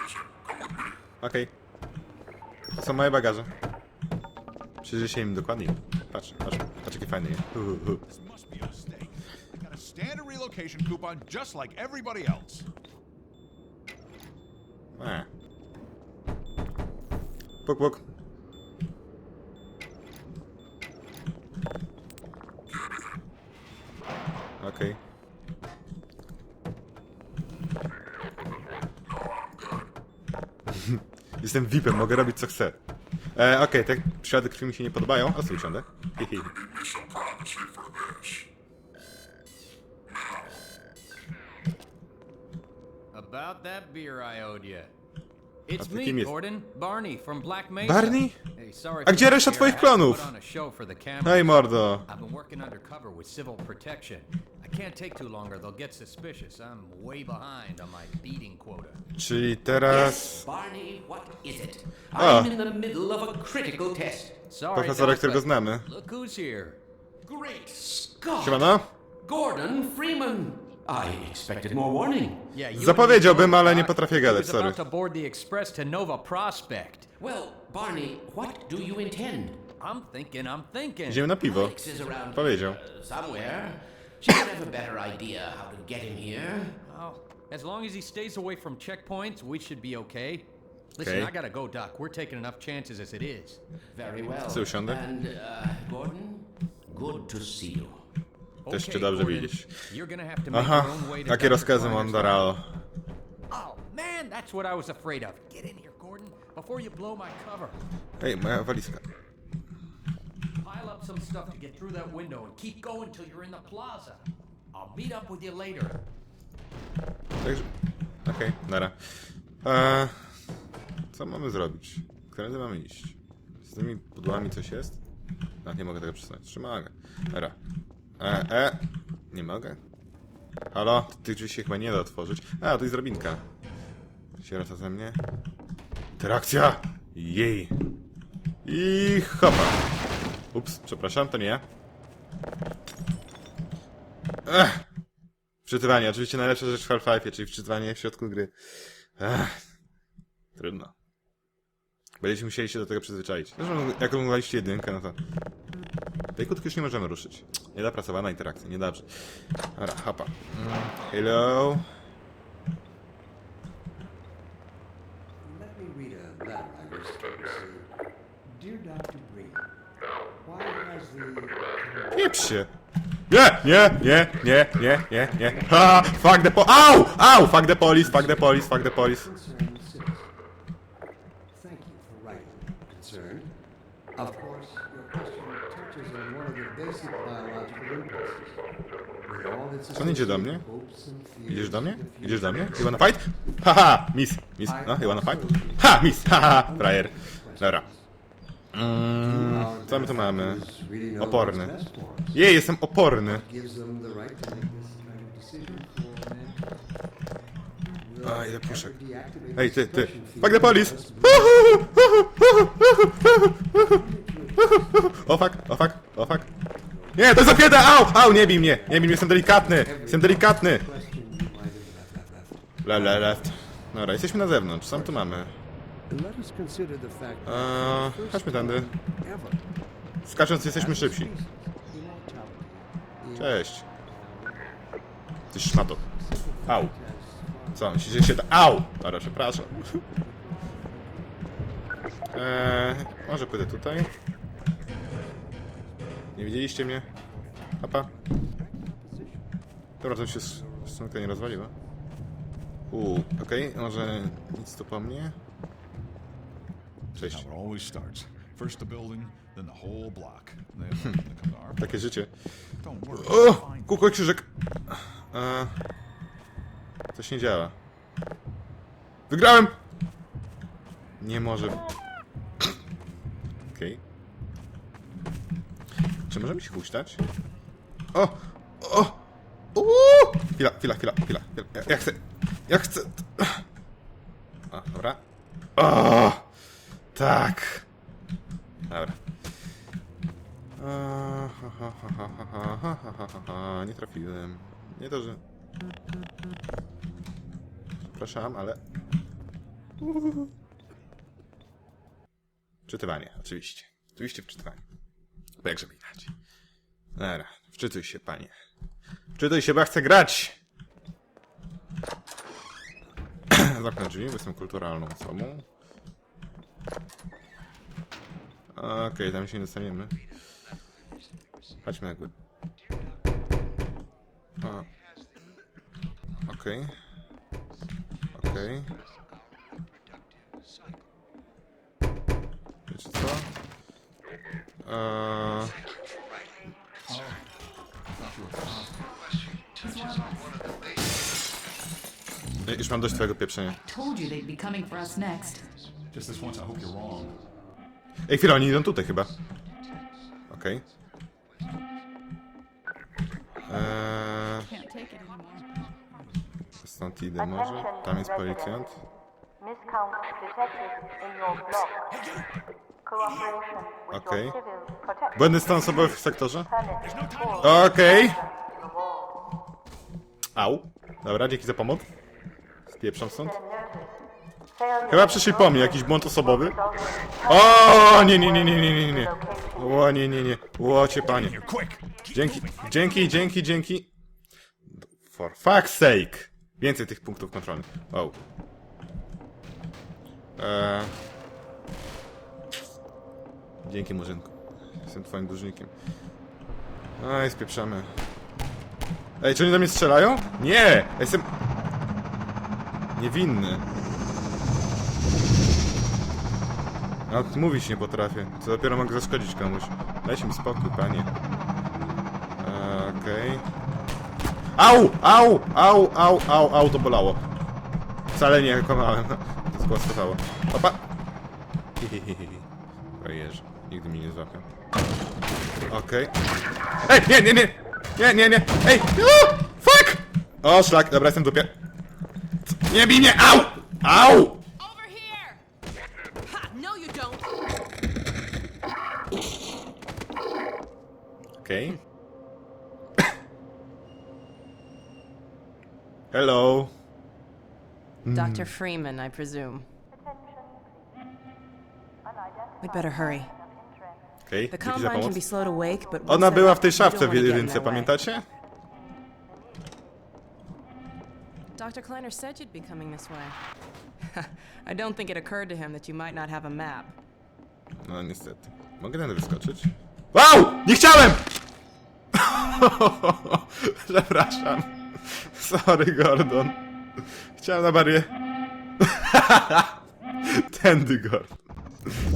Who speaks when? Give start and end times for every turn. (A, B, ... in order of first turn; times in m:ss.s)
0:01.2-0:01.5 A
0:02.7-0:03.5 A
0:04.8-0:08.0 A
0:08.1-0:12.7 B
0:14.9-0:15.3 A
0:17.6-0:18.0 A
0:24.6-0:25.0 A
0:30.7-0:32.8 A
0:33.4-0:36.6 A
0:43.1-0:44.9 C
0:45.7-0:59.0 C
0:45.8-0:46.3 A
0:47.8-0:48.4 A
0:49.0-0:50.3 A
0:51.2-0:52.1 A
0:59.2-1:00.4 A
0:59.8-1:04.4 D
1:02.2-1:02.5 A
1:04.5-1:06.8 C
1:04.7-1:05.9 A
1:07.2-1:12.4 D
1:08.4-1:08.9 A
1:12.5-1:17.1 C
1:12.8-1:14.8 A
1:17.2-1:19.6 D
1:19.8-1:21.3 C
1:21.1-1:21.8 A
1:21.4-1:26.7 D
1:22.3-1:22.8 A
1:26.8-1:33.6 C
1:31.0-1:31.3 A
1:33.9-1:38.0 D
1:34.5-1:35.0 A
1:38.7-1:42.6 C
1:38.7-1:39.8 A
1:40.5-1:42.7 A
1:43.5-1:47.8 C
1:48.2-1:49.0 A
1:50.6-1:56.0 C
1:57.4-1:57.7 A
1:58.2-2:00.4 A
2:01.1-2:05.0 A
2:05.6-2:07.6 A
2:08.2-2:09.8 A
2:10.7-2:13.4 A
2:14.4-2:15.2 A
2:16.2-2:17.7 A
2:18.6-2:19.8 A
2:20.5-2:21.6 A
2:24.5-2:24.8 A
2:25.6-2:29.6 A
2:30.6-2:30.9 A
2:32.2-2:35.2 A
2:36.4-2:39.1 A
2:39.8-2:41.8 A
2:45.4-2:47.9 E
2:48.4-2:49.7 E
2:50.4-2:52.4 E
2:52.1-2:52.7 A
2:53.3-2:59.3 A
2:54.0-3:00.3 E
3:01.5-3:03.5 E
3:04.2-3:08.6 E
3:09.3-3:13.1 E
3:09.9-3:10.6 A
3:11.5-3:17.8 A
3:14.6-3:18.1 E
3:18.7-3:20.6 A
3:19.2-3:22.4 E
3:21.2-3:21.8 A
3:22.3-3:23.4 A
3:23.2-3:26.7 E
3:27.9-3:32.2 E
3:28.2-3:29.0 A
3:29.6-3:34.0 A
3:33.7-3:35.5 E
3:34.6-3:36.5 A
3:36.4-3:43.7 E
3:37.2-3:40.9 A
3:42.8-3:45.5 A
3:44.4-3:45.3 E
3:46.1-3:49.6 E
3:47.4-3:48.9 A
3:50.2-3:51.3 A
3:50.5-3:54.8 E
3:53.4-3:53.9 A
3:55.5-3:56.0 A
3:55.6-3:58.1 E
3:56.7-3:56.9 A
3:57.8-4:00.0 A
3:59.9-4:02.3 E
4:02.3-4:04.1 A
4:06.3-4:11.8 E
4:06.4-4:07.1 A
4:07.8-4:08.1 A
4:10.0-4:11.7 A
4:12.9-4:15.4 A
4:17.2-4:21.9 B
4:17.2-4:17.5 A
4:21.8-4:22.3 A
4:22.8-4:24.2 B
4:23.1-4:25.8 A
4:27.1-4:27.8 A
4:29.3-4:29.8 A
4:31.2-4:31.8 A
4:33.7-4:34.0 A
4:36.3-4:37.2 A
4:38.1-4:39.2 A
4:39.8-4:43.6 A
4:44.7-4:45.2 A
4:45.8-4:46.5 A
4:47.1-4:47.9 A
4:48.9-4:49.2 A
4:50.8-4:55.4 A
4:58.2-4:58.8 A
5:00.0-5:00.5 A
5:02.9-5:04.8 A
5:05.6-5:06.3 A
5:07.2-5:08.5 A
5:09.4-5:10.6 A
5:13.5-5:15.6 A
5:18.7-5:20.2 A
5:21.8-5:22.3 A
5:24.6-5:24.9 A
5:26.5-5:26.9 A
5:28.3-5:28.9 A
5:32.9-5:33.5 A
5:34.8-5:35.8 A
5:37.1-5:37.5 B
5:38.1-5:39.1 B
5:39.8-5:40.6 F
5:42.6-5:43.8 A
5:43.8-5:45.7 F
5:46.1-5:47.4 B
5:48.3-5:49.3 A
5:50.5-5:50.8 A
5:53.7-5:54.7 A
5:54.6-5:55.9 F
5:56.8-5:59.0 A
6:01.8-6:02.5 B
6:03.2-6:03.7 B
6:04.1-6:04.7 A
6:05.3-6:06.8 A
6:07.0-6:07.8 B
6:07.6-6:08.4 A
6:10.6-6:12.1 A
6:12.9-6:13.6 A
6:15.0-6:16.9 A
6:17.4-6:21.6 A
6:21.4-6:23.4 B
6:22.3-6:24.1 A
6:24.9-6:28.4 A
6:30.6-6:31.1 A
6:33.8-6:34.5 A
6:35.0-6:35.9 A
6:37.2-6:38.1 A
6:39.4-6:41.5 A
6:43.2-6:43.8 A
6:47.3-6:51.3 A
6:52.6-6:53.7 A
6:54.8-6:57.4 A
6:58.3-7:01.0 A
7:02.0-7:04.7 A
7:05.9-7:06.3 A
7:07.0-7:11.8 A
7:12.7-7:14.6 A
7:14.8-7:15.6 F
7:16.5-7:17.4 G
7:21.6-7:22.0 A
7:26.3-7:26.9 A
7:28.2-7:28.7 A
7:28.3-7:29.9 G
7:32.8-7:33.5 G
7:34.4-7:35.4 A
7:34.7-7:38.1 G
7:36.3-7:38.5 A
7:41.8-7:43.6 G
7:44.3-7:47.2 G
7:48.0-7:51.5 A
7:52.3-7:58.3 A
7:59.0-8:01.6 A